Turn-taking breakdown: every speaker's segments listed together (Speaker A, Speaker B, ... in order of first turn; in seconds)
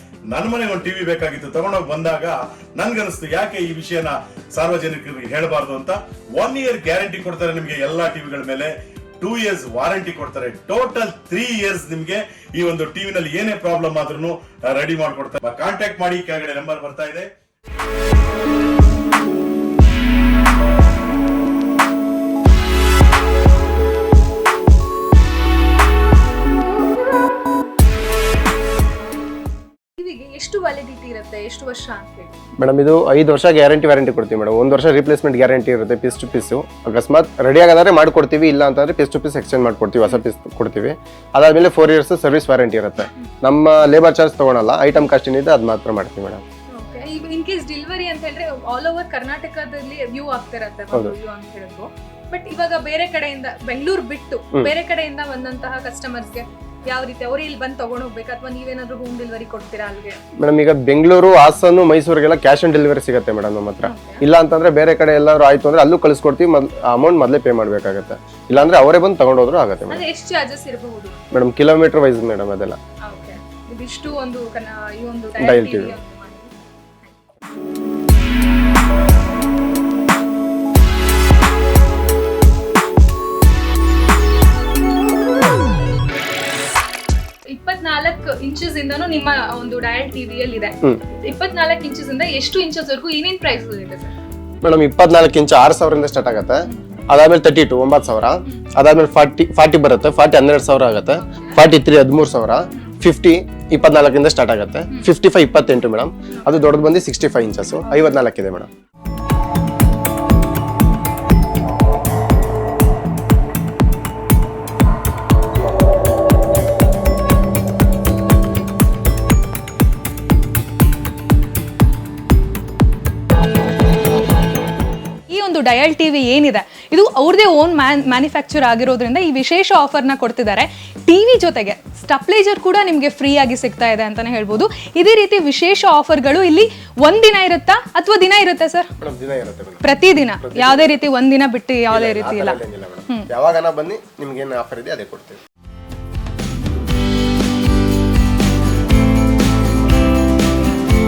Speaker A: 0.3-17.3
Speaker B: 29.9-32.4, 46.7-60.2, 63.8-64.2, 69.9-71.3, 73.1-76.5, 87.5-94.1, 101.3-101.6, 106.4-106.7, 107.9-108.2, 125.3-138.9, 139.8-143.3
Speaker C: 32.6-46.4, 60.4-70.0, 71.3-72.8, 75.4-75.9, 94.6-96.6, 97.1-108.7, 139.0-141.1, 141.9-145.4